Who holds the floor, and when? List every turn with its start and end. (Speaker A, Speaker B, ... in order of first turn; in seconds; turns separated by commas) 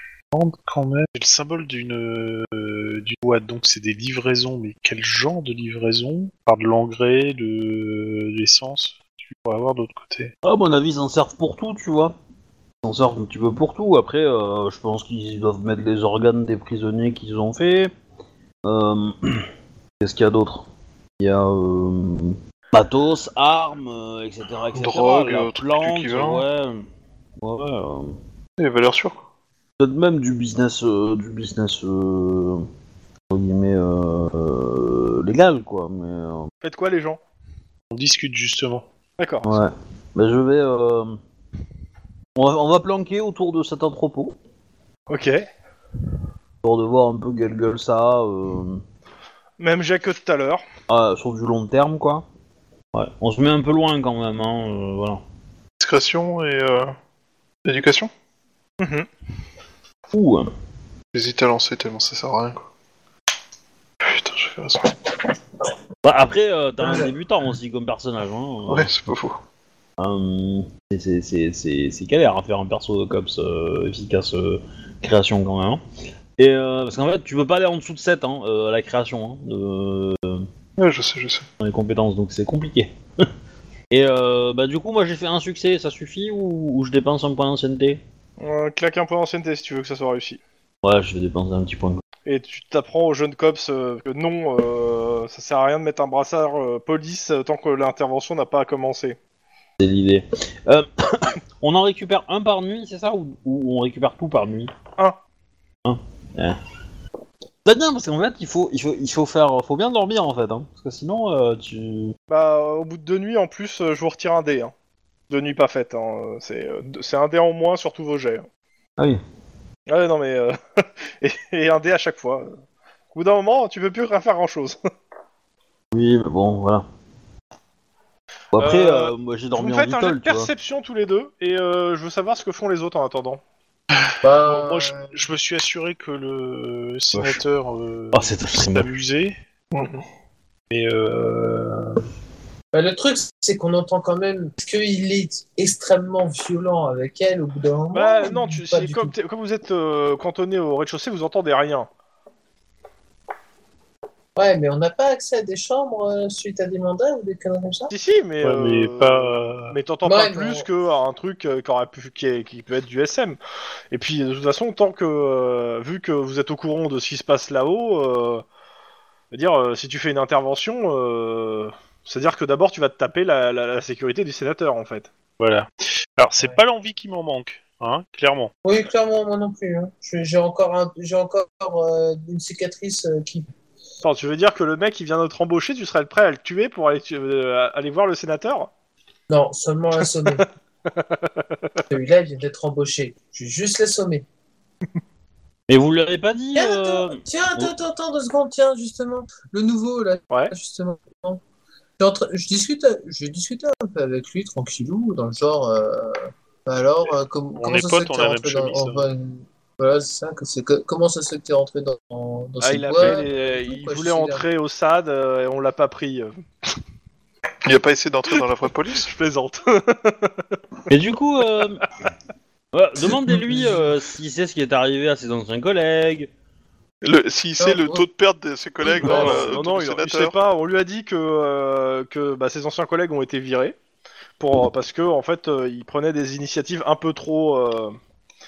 Speaker A: 0.3-10.3, Speaker B: 10.4-12.2, Speaker B: 12.8-17.9, Speaker B: 18.6-19.5, Speaker B: 20.0-20.7, Speaker B: 21.2-26.8, Speaker C: 24.8-26.4, Speaker B: 27.4-28.1, Speaker C: 28.6-29.2, Speaker B: 29.8-32.6, Speaker B: 33.3-36.5, Speaker D: 36.6-37.2, Speaker A: 37.9-38.9, Speaker D: 39.2-39.5, Speaker B: 39.4-41.2, Speaker B: 42.4-44.4, Speaker D: 45.1-45.5, Speaker B: 46.6-48.8, Speaker D: 49.6-50.6, Speaker B: 50.9-52.2, Speaker B: 52.9-55.2, Speaker C: 55.8-57.0, Speaker C: 57.6-58.1, Speaker D: 58.8-59.1, Speaker B: 60.1-60.5, Speaker C: 61.1-62.6, Speaker C: 64.0-65.0, Speaker B: 66.0-68.9, Speaker C: 68.7-69.4, Speaker B: 70.0-75.8, Speaker B: 76.4-80.5, Speaker C: 80.8-81.5, Speaker B: 81.6-82.9, Speaker B: 83.9-88.0, Speaker D: 88.4-90.4, Speaker B: 90.8-92.0, Speaker D: 92.3-99.2, Speaker B: 99.8-104.7, Speaker B: 105.8-106.6, Speaker B: 107.7-112.2, Speaker D: 112.3-114.7, Speaker D: 115.3-118.5, Speaker D: 119.9-122.6, Speaker D: 123.1-124.8, Speaker B: 125.9-126.8, Speaker B: 128.5-130.5, Speaker D: 128.6-133.4, Speaker A: 134.0-139.4, Speaker E: 134.2-135.1, Speaker B: 137.1-137.4, Speaker B: 138.1-138.9, Speaker A: 140.7-142.0, Speaker E: 142.7-149.1, Speaker D: 147.9-151.9, Speaker E: 154.4-157.9, Speaker D: 157.9-163.4, Speaker A: 158.4-159.8, Speaker E: 160.0-160.7, Speaker D: 163.9-168.4, Speaker D: 169.3-175.1, Speaker A: 175.4-178.5, Speaker E: 178.6-183.5, Speaker D: 184.0-188.7, Speaker E: 189.3-190.5, Speaker E: 191.9-194.2, Speaker B: 195.7-197.7, Speaker E: 196.6-201.4, Speaker E: 202.0-214.4, Speaker A: 207.6-209.1, Speaker D: 212.6-216.3, Speaker C: 217.7-219.1, Speaker D: 219.0-220.4, Speaker B: 220.9-221.8, Speaker B: 222.7-226.3, Speaker C: 227.0-230.3, Speaker E: 227.6-228.0, Speaker E: 228.9-229.6, Speaker D: 229.0-233.8, Speaker D: 234.4-238.0